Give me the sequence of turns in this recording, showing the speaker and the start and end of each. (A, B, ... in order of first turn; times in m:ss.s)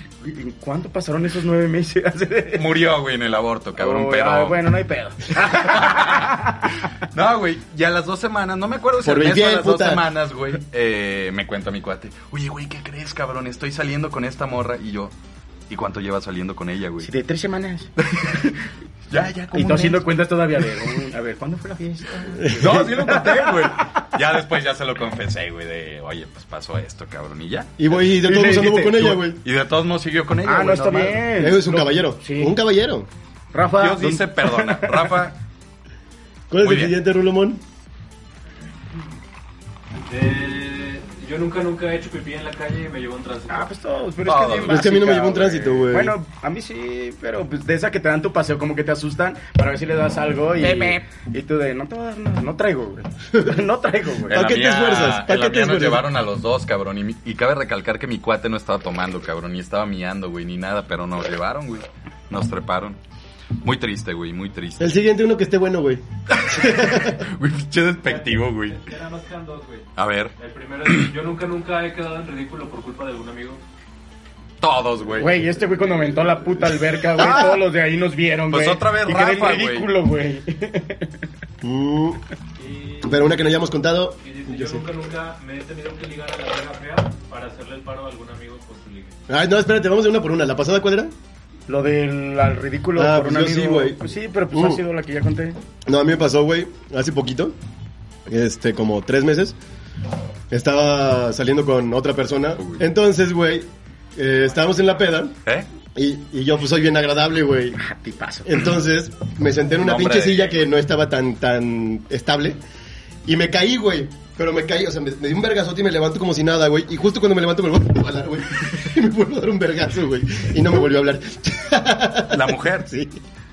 0:00.2-0:02.8 A
0:02.6-0:04.6 B
0:03.8-0:06.7 A
0:05.4-0:06.5 B
0:07.0-0:15.1 B
0:09.0-0:10.0 C
0:15.7-0:17.1 B
0:17.0-0:18.5 A
0:18.1-0:18.5 B
0:19.1-0:20.1 B
0:19.5-0:24.1 A
0:22.4-0:22.9 C
0:22.5-0:27.8 B
0:27.8-0:29.4 C
0:28.2-0:29.2 A
0:29.4-0:31.6 B
0:30.4-0:32.6 A
0:31.4-0:33.1 C
0:33.5-0:35.3 A
0:33.8-0:35.3 B
0:36.5-0:37.6 C
0:36.6-0:37.0 B
0:40.1-0:43.7 D
0:43.5-0:54.4 A
0:44.2-0:45.0 B
0:44.6-0:46.2 C
0:54.3-1:03.0 B
0:54.3-0:56.1 C
1:03.6-1:05.0 B
1:04.8-1:07.2 C
1:06.3-1:08.8 B
1:08.0-1:09.9 D
1:10.0-1:10.3 B
1:10.4-1:13.6 D
1:14.6-1:15.4 B
1:15.2-1:21.2 A
1:17.3-1:17.6 B
1:18.5-1:19.9 B
1:21.6-1:22.2 C
1:22.6-1:23.2 D
1:23.0-1:24.8 C
1:24.2-1:29.2 D
1:29.3-1:31.1 C
1:31.7-1:35.6 A
1:33.0-1:34.0 C
1:34.5-1:34.8 C
1:35.9-1:37.6 C
1:38.3-1:39.6 C
1:40.5-1:45.4 C
1:46.0-1:47.8 C
1:47.8-1:48.5 A
1:48.4-1:52.6 C
1:49.8-1:50.7 B
1:53.3-2:03.2 C
2:02.3-2:02.9 B